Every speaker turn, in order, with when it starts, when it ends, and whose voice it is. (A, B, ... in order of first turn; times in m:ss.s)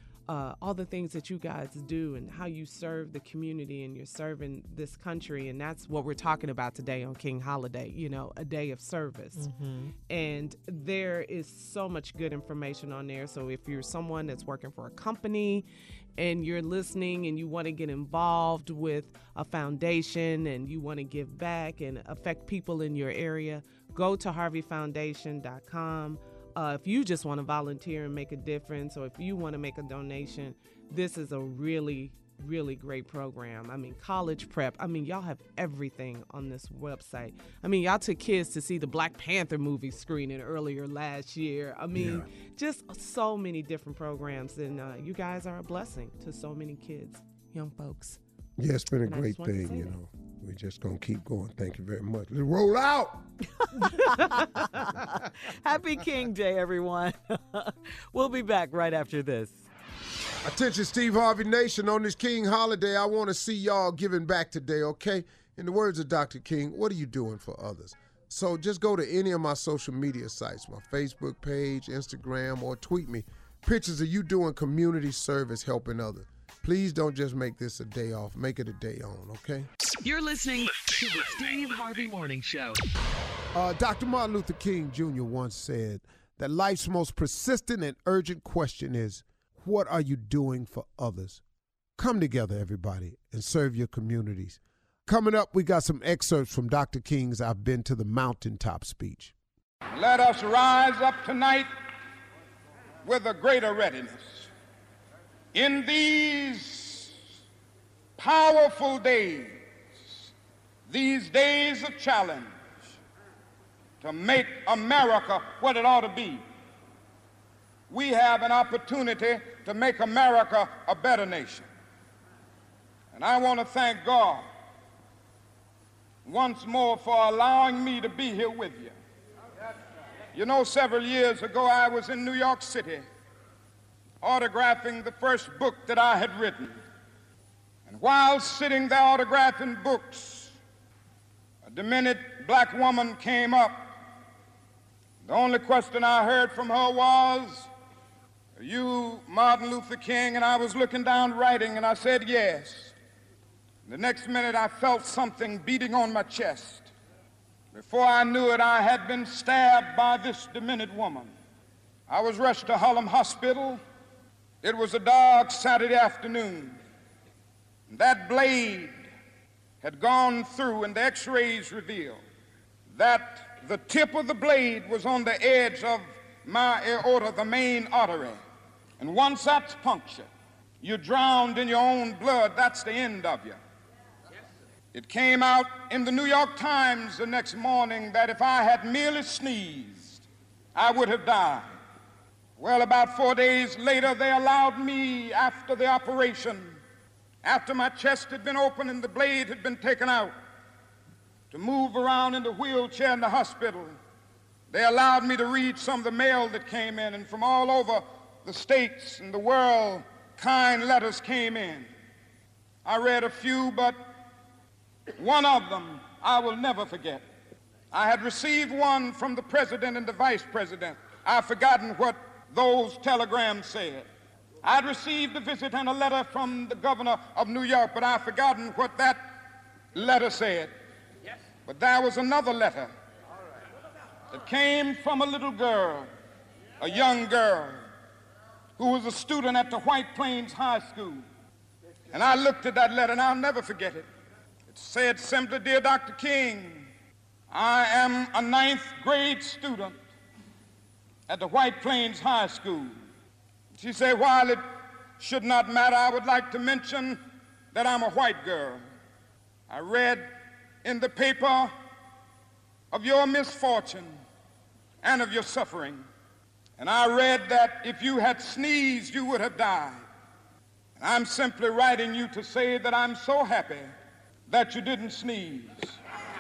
0:00.3-0:09.5 A
0:09.4-0:09.9 B
0:10.1-0:48.2 A
0:42.0-0:42.3 C
0:48.6-0:53.3 C
0:49.1-0:49.9 A
0:53.6-0:59.7 B
0:54.0-0:54.5 A
1:00.4-1:19.7 C
1:20.0-1:22.8 D
1:23.5-1:31.4 C
1:32.0-1:39.4 C
1:39.9-1:41.7 E
1:43.0-1:44.5 E
1:45.5-1:47.1 E
1:48.2-1:50.2 E
1:50.9-1:52.6 E
1:54.0-1:56.4 E
1:57.9-2:01.7 E
2:03.1-2:04.5 E
2:06.2-2:09.0 E
2:10.3-2:13.1 E
2:14.2-2:16.8 E
2:17.9-2:20.6 E
2:21.6-2:24.0 E
2:25.2-2:27.7 E
2:28.6-2:33.0 E
2:33.9-2:36.9 E
2:37.7-2:41.3 E
2:42.1-2:43.8 E
2:44.6-2:46.8 E
2:47.9-2:49.0 E
2:49.8-2:52.2 E
2:52.9-2:58.4 E
2:59.0-3:00.3 E
3:00.8-3:03.6 E
3:04.9-3:11.7 E
3:12.6-3:16.8 E
3:17.4-3:20.4 E
3:21.5-3:24.0 E
3:24.7-3:31.9 E
3:32.8-3:34.0 E
3:35.2-3:37.2 E
3:37.9-3:44.1 E
3:44.6-3:49.2 E
3:50.0-3:50.7 E
3:51.7-3:52.9 E
3:54.3-3:56.1 E
3:56.8-3:57.8 E
3:58.8-4:01.3 E
4:02.1-4:04.1 E
4:04.7-4:06.9 E
4:07.5-4:10.0 E
4:11.3-4:13.0 E
4:13.8-4:14.6 E
4:15.2-4:17.2 E
4:17.7-4:18.8 E
4:19.7-4:20.3 E
4:20.8-4:21.7 E
4:22.9-4:24.2 E
4:25.0-4:26.0 E
4:26.8-4:30.0 E
4:31.0-4:33.9 E
4:34.5-4:36.0 E